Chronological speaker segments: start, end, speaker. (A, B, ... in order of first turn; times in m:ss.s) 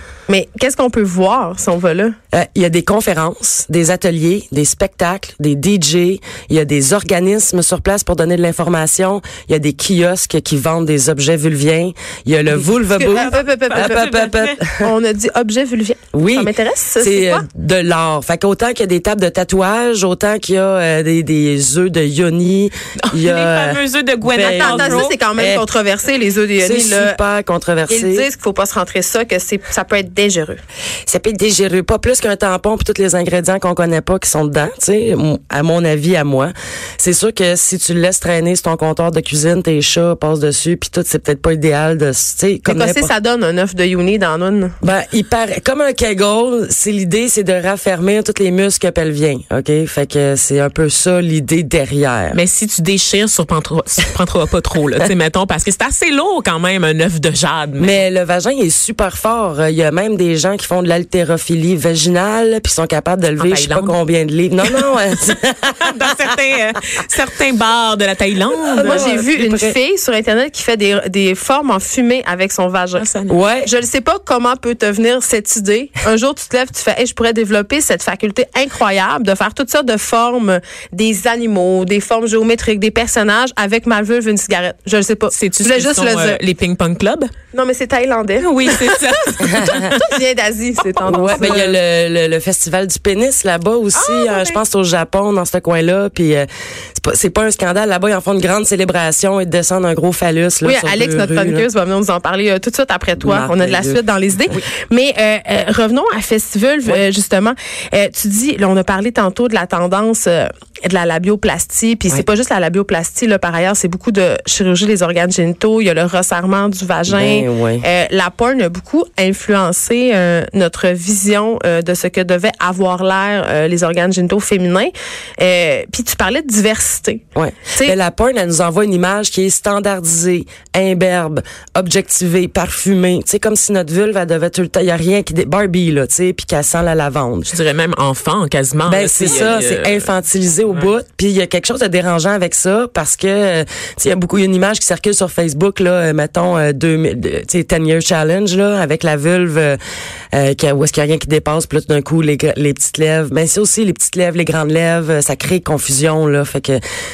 0:00.3-0:02.1 A
0:02.3-0:14.9 B
0:12.8-0:14.2 A
0:13.1-0:14.6 C
0:14.8-0:17.4 A
0:16.1-0:25.7 B
0:23.0-0:25.2 C
0:24.4-0:27.2 A
0:26.6-0:28.3 B
0:27.9-0:30.6 A
0:31.1-0:43.1 B
0:42.7-0:44.7 A
0:44.8-0:52.4 B
0:52.3-0:58.0 C
0:57.8-1:05.8 B
1:03.4-1:04.0 C
1:04.6-1:05.0 C
1:05.8-1:09.2 C
1:08.7-1:09.8 B
1:08.8-1:13.1 A
1:13.0-1:13.4 C
1:13.3-1:13.7 B
1:13.6-1:26.4 A
1:25.3-1:27.3 C
1:27.5-1:31.6 A
1:28.4-1:30.1 C
1:29.4-1:29.9 B
1:30.9-1:31.8 C
1:31.1-1:41.7 B
1:40.6-2:08.0 A
1:43.2-1:44.6 B
1:57.1-1:57.9 B
2:07.3-2:17.5 B
2:17.5-2:20.1 C
2:18.9-2:29.8 B
2:30.3-2:36.8 B